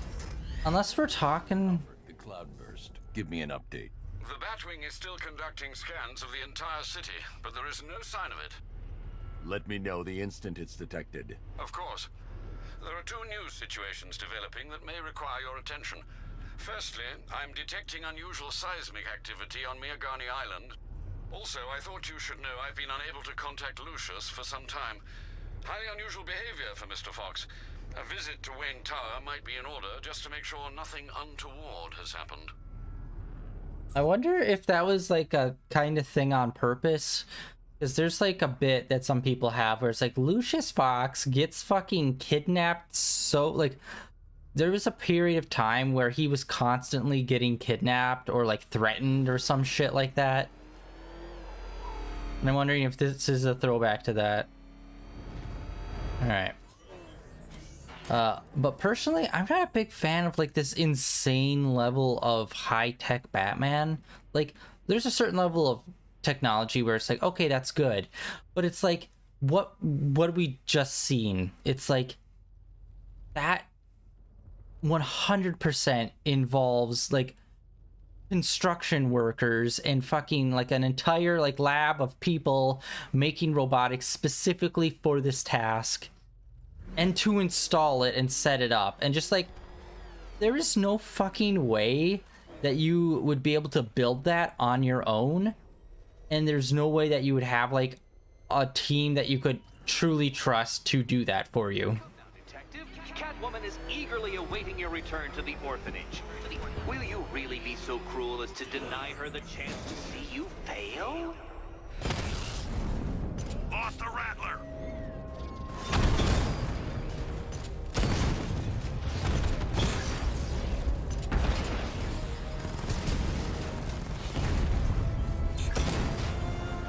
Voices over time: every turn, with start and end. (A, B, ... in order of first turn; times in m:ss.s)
0:00.6-0:01.9 A
0:01.6-0:03.9 B
0:04.2-0:08.6 C
0:09.4-0:11.4 B
0:11.6-0:12.1 C
0:12.8-0:16.0 C
0:16.6-0:20.7 C
0:21.3-0:25.0 C
0:25.6-0:32.5 C
0:34.0-0:37.3 A
0:37.8-0:43.8 A
0:44.6-0:50.5 A
0:52.4-0:54.5 A
0:56.2-0:56.6 A
0:58.1-1:12.2 A
1:13.4-1:13.7 A
1:14.8-1:17.4 A
1:18.3-1:26.1 A
1:27.0-1:29.5 A
1:30.4-1:35.6 A
1:36.3-1:42.0 A
1:42.0-1:51.4 D
1:53.7-1:54.6 D